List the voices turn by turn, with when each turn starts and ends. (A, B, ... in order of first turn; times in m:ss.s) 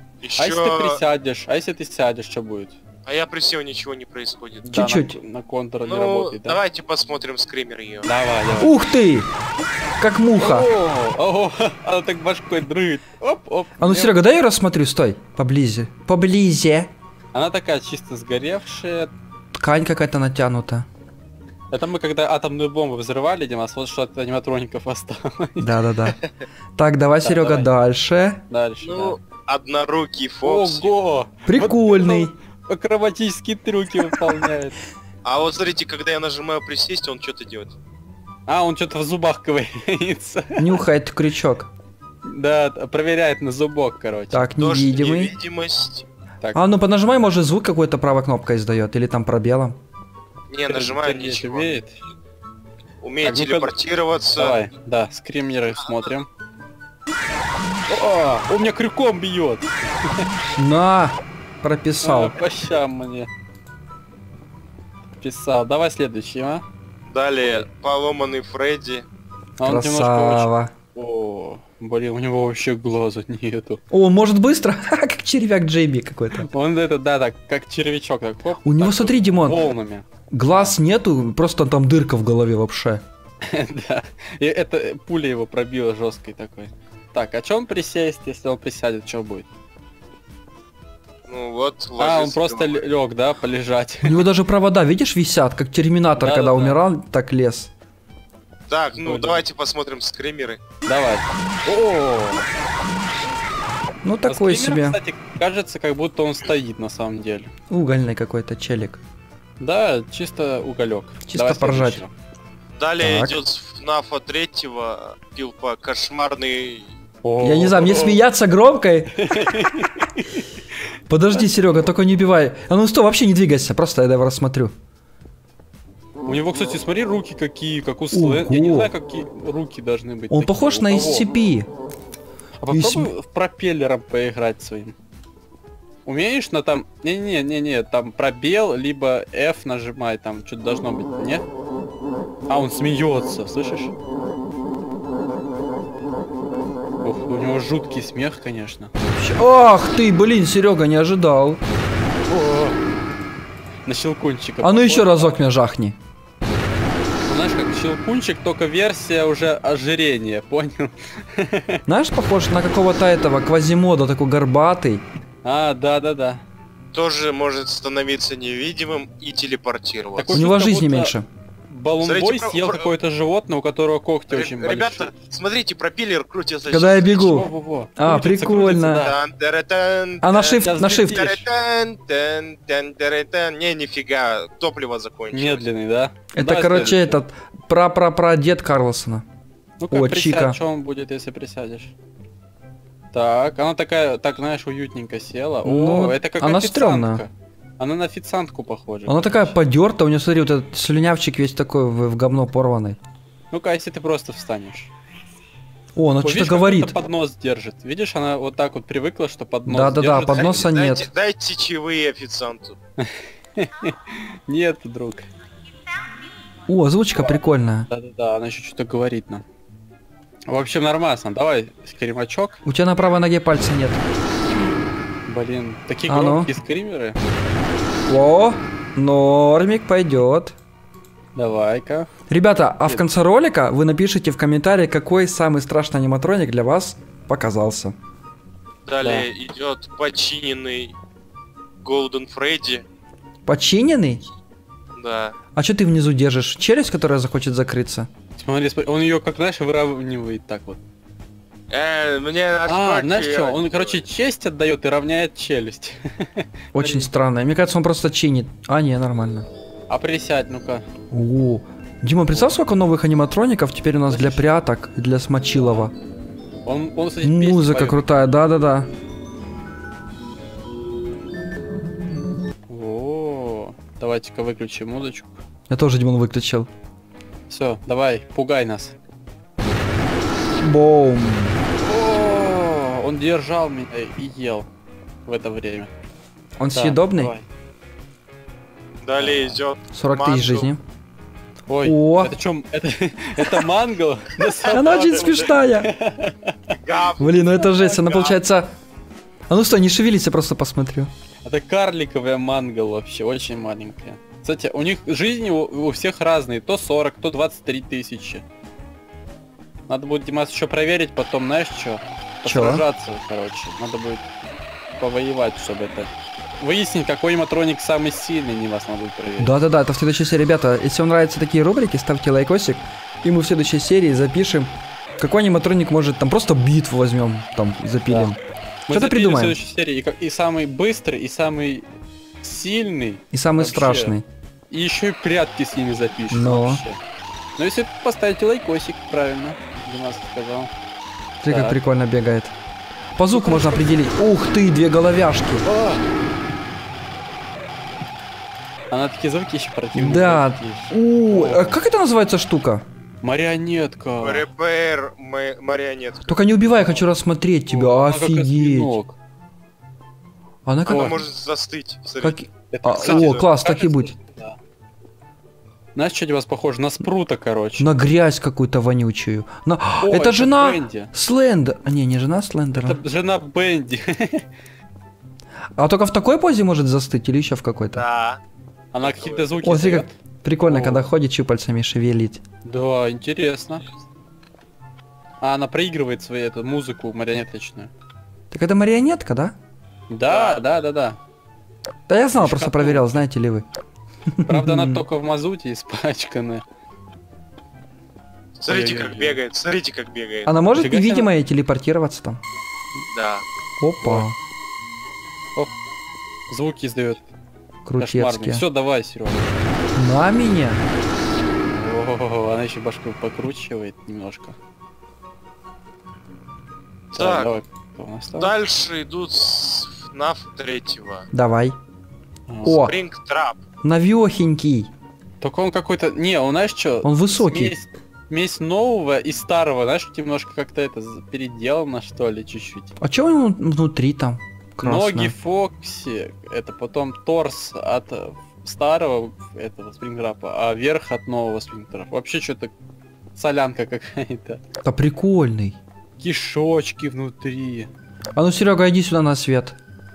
0:00.2-0:01.0 A
0:00.4-0:02.8 B
0:03.1-0:04.7 A
0:04.6-0:06.6 B
0:04.7-0:05.2 C
0:05.8-0:08.1 A
0:08.0-0:08.8 B
0:08.6-0:09.3 C
0:10.0-0:10.7 C
0:10.4-0:14.2 B
0:13.8-0:16.9 C
0:17.3-0:19.1 B
0:19.6-0:20.9 C
0:21.7-0:25.8 B
0:25.6-0:26.2 C
0:26.8-0:28.4 C
0:27.2-0:27.7 B
0:28.5-0:29.2 B
0:28.8-0:30.9 A
0:30.4-0:34.8 B
0:31.5-0:32.4 C
0:35.2-0:37.7 A
0:38.5-0:40.8 B
0:40.6-0:41.7 C
0:42.2-0:44.5 B
0:44.3-0:45.3 C
0:44.6-0:46.1 A
0:46.5-0:49.8 C
0:50.5-0:51.8 A
0:50.7-0:51.9 B
0:53.0-0:54.6 A
0:53.2-0:53.7 B
0:54.4-0:56.3 B
0:57.9-1:00.3 B
1:00.6-1:02.4 C
1:02.0-1:03.3 B
1:05.2-1:06.6 B
1:07.1-1:09.0 A
1:09.6-1:13.8 B
1:09.6-1:10.7 C
1:13.9-1:16.5 C
1:16.4-1:20.7 B
1:18.6-1:19.6 C
1:20.3-1:23.0 C
1:23.4-1:29.5 B
1:31.3-1:32.9 A
1:32.0-1:34.3 B
1:34.0-1:37.7 C
1:36.2-1:36.8 B
1:38.7-1:40.6 A
1:39.0-1:39.4 B
1:40.9-1:42.4 B
1:44.0-1:45.0 C
1:44.3-1:47.5 B
1:47.7-1:49.0 C
1:49.6-1:52.1 B
1:51.3-1:52.0 C
1:52.8-1:57.0 A
1:53.0-1:53.4 C
1:57.2-1:58.2 B
1:57.4-1:59.1 C
1:59.2-2:00.4 B
2:01.1-2:04.7 C
2:06.2-2:11.3 B
2:08.1-2:08.9 C
2:10.3-2:11.7 C
2:12.6-2:15.0 B
2:12.7-2:13.1 C
2:16.0-2:21.4 B
2:22.5-2:24.0 B
2:27.0-2:28.9 B
2:29.2-2:31.6 C
2:32.3-2:32.8 B
2:33.8-2:35.4 B
2:34.6-2:36.0 C
2:37.2-2:41.8 B
2:41.9-2:45.0 C
2:45.4-2:46.4 B
2:46.9-2:50.5 A
2:50.2-2:51.1 B
2:50.3-2:51.3 C
2:51.7-2:55.1 B
2:52.0-2:52.9 A
2:54.3-2:57.4 A
2:56.7-2:59.1 C
2:57.1-2:59.1 B
2:58.8-3:05.6 A
3:00.2-3:01.4 C
3:00.6-3:01.4 B
3:05.3-3:07.2 B
3:06.3-3:09.2 C
3:09.8-3:11.9 B
3:09.9-3:10.6 C
3:13.1-3:17.3 B
3:15.6-3:17.2 C
3:17.8-3:19.5 B
3:19.1-3:23.0 C
3:23.5-3:24.9 B
3:26.0-3:27.0 C
3:26.2-3:30.7 B
3:29.6-3:31.1 C
3:30.3-3:32.8 A
3:33.0-3:35.3 B
3:36.7-3:37.9 C
3:37.9-3:39.4 B
3:40.5-3:42.6 B
3:42.7-3:44.0 C
3:45.3-3:47.2 B
3:46.1-3:46.5 C
3:48.1-3:50.6 C
3:51.4-3:52.1 B
3:52.3-3:58.0 C
3:58.9-4:01.0 A
3:59.0-3:59.3 B
4:01.8-4:02.8 A
4:03.5-4:04.2 C
4:05.0-4:05.4 A
4:05.6-4:08.1 C
4:08.4-4:10.8 B
4:11.7-4:14.0 A
4:12.7-4:17.1 B
4:16.7-4:19.5 C
4:19.9-4:20.8 B
4:21.1-4:25.9 C
4:24.1-4:24.5 B
4:26.6-4:28.0 B
4:27.2-4:28.9 C
4:32.7-4:35.4 B
4:35.7-4:36.7 C
4:37.5-4:38.9 B
4:40.6-4:41.6 C
4:41.8-4:44.7 B
4:45.2-4:45.9 B
4:46.6-4:47.3 C
4:46.7-4:47.4 B
4:49.0-4:50.7 A
4:49.2-4:49.6 B
4:49.9-4:50.8 C
4:51.7-4:56.8 B
4:51.8-4:52.3 C
4:54.7-4:55.9 C
4:56.8-4:58.4 A
4:57.2-4:58.7 C
4:59.5-5:01.1 C
5:01.4-5:08.4 B
5:09.9-5:14.3 B
5:12.4-5:12.8 C
5:15.0-5:19.6 B
5:19.4-5:29.6 C
5:28.1-5:28.3 B
5:28.9-5:31.9 B
5:32.4-5:34.2 B
5:33.3-5:34.2 C
5:34.7-5:37.0 B
5:36.3-5:36.8 C
5:37.6-5:40.7 B
5:41.4-5:42.5 C
5:41.5-5:41.8 B
5:43.2-5:45.7 C
5:43.3-5:43.9 B
5:45.6-5:46.0 B
5:48.9-5:51.8 B
5:50.0-5:52.8 C
5:53.2-5:54.5 B
5:54.2-5:56.4 A
5:56.3-5:59.0 C
5:57.7-5:59.1 B
6:00.7-6:01.2 C
6:00.9-6:03.5 A
6:00.9-6:01.1 B
6:02.2-6:04.2 C
6:02.7-6:04.6 B
6:06.0-6:07.9 B
6:07.8-6:13.0 C
6:10.0-6:11.1 B
6:12.7-6:14.4 B
6:15.8-6:18.0 C
6:17.9-6:18.4 A
6:18.9-6:20.1 B
6:19.0-6:19.5 A
6:19.6-6:22.4 C
6:20.6-6:21.1 B
6:22.6-6:23.8 B
6:25.4-6:27.9 B
6:28.5-6:29.5 C
6:30.1-6:31.2 B
6:30.3-6:30.7 A
6:32.1-6:33.6 C
6:32.4-6:33.1 B
6:34.3-6:35.0 C
6:34.5-6:36.6 B
6:38.6-6:40.5 A
6:38.7-6:39.4 B
6:40.5-6:42.4 C
6:40.8-6:41.3 B
6:43.1-6:43.4 A
6:43.8-6:44.4 C
6:46.5-6:47.3 B
6:47.8-6:48.6 C
6:48.0-6:49.5 B
6:50.0-6:50.8 C
6:51.6-6:54.6 B
6:57.1-6:58.5 B
6:57.1-6:57.6 A
6:58.4-7:01.3 A
7:01.3-7:01.8 C
7:02.5-7:02.8 B
7:02.6-7:03.0 C
7:02.6-7:03.6 A
7:03.8-7:04.9 C
7:05.4-7:12.9 B
7:07.0-7:07.7 C
7:13.0-7:15.3 C
7:14.8-7:22.7 B
7:23.4-7:24.6 B
7:24.8-7:25.8 C
7:26.2-7:27.9 B
7:28.4-7:29.8 C